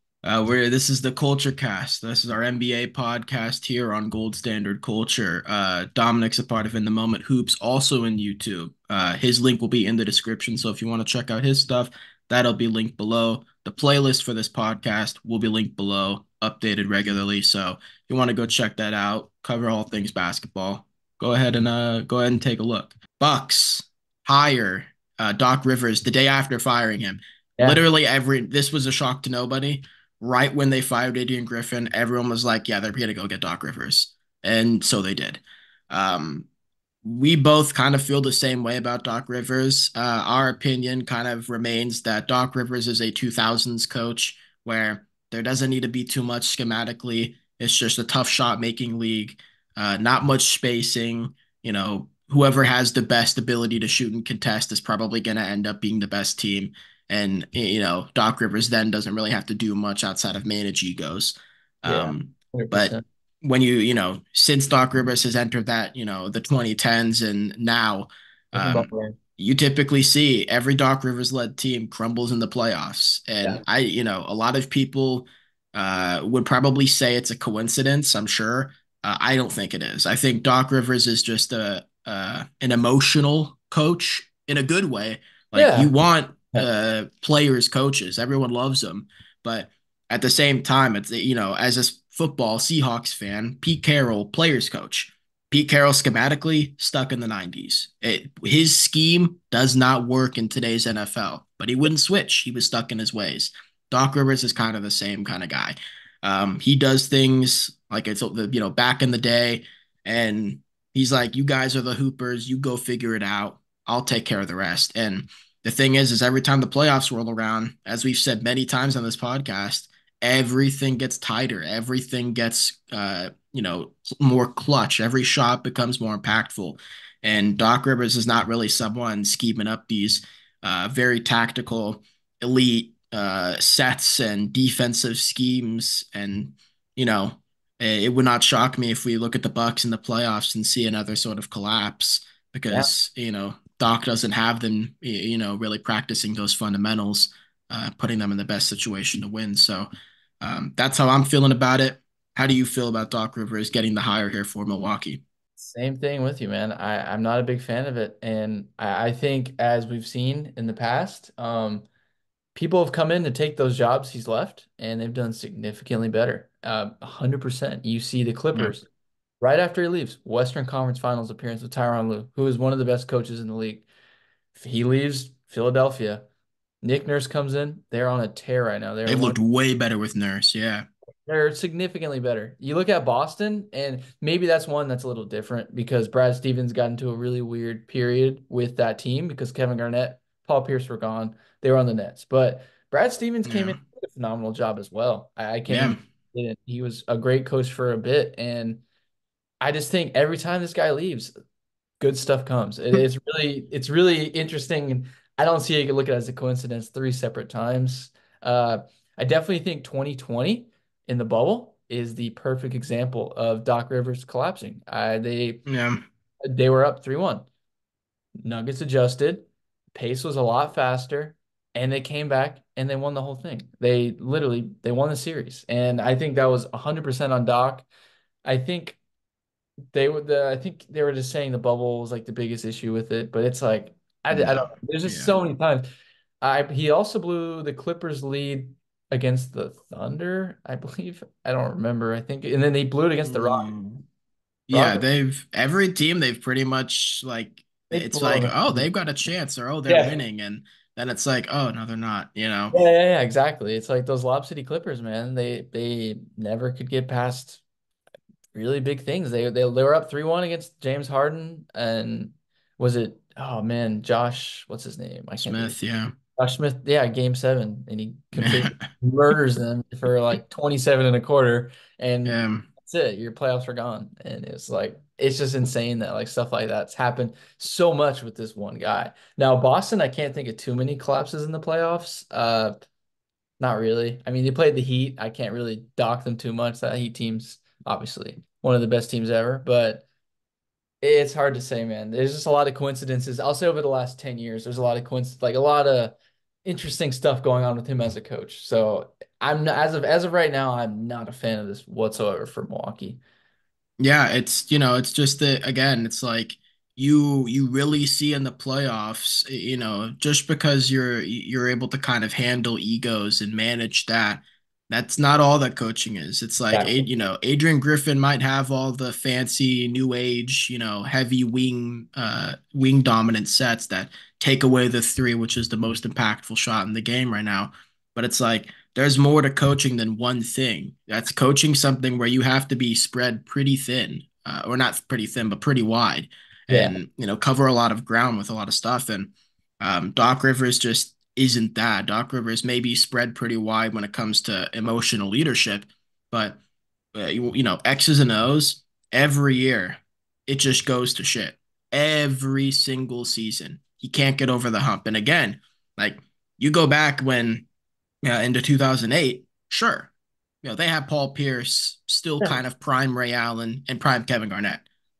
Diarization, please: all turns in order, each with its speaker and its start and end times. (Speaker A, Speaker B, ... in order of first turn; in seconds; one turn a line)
Speaker A: 0.2-36.5
Speaker A: 37.0-149.9
Speaker B: 61.9-63.0
Speaker B: 68.5-69.2
Speaker B: 85.5-85.9
Speaker A: 150.4-155.2
Speaker B: 155.6-161.9
Speaker B: 162.5-168.9
Speaker B: 169.4-173.9
Speaker B: 174.5-176.2
Speaker B: 176.8-179.4
Speaker A: 179.1-180.9
Speaker B: 181.2-198.8
Speaker A: 193.4-193.8
Speaker A: 195.7-196.0
Speaker B: 199.6-201.3
Speaker B: 202.0-215.6
Speaker A: 215.7-216.0
Speaker B: 216.4-217.5
Speaker B: 218.4-227.9
Speaker B: 228.4-229.0
Speaker B: 229.9-235.9
Speaker A: 234.3-235.4
Speaker B: 236.4-243.7
Speaker A: 243.2-244.0
Speaker A: 244.7-252.8
Speaker B: 244.7-245.0
Speaker B: 247.9-248.9
Speaker B: 249.9-250.2
Speaker B: 252.7-257.6
Speaker B: 258.5-265.8
Speaker A: 265.4-266.1
Speaker B: 266.4-282.8
Speaker A: 268.4-268.9
Speaker A: 272.2-272.7
Speaker B: 283.6-290.1
Speaker B: 291.0-303.2
Speaker A: 304.0-346.6
Speaker B: 316.7-317.0
Speaker B: 336.7-337.0
Speaker A: 347.1-357.6
Speaker A: 358.2-364.9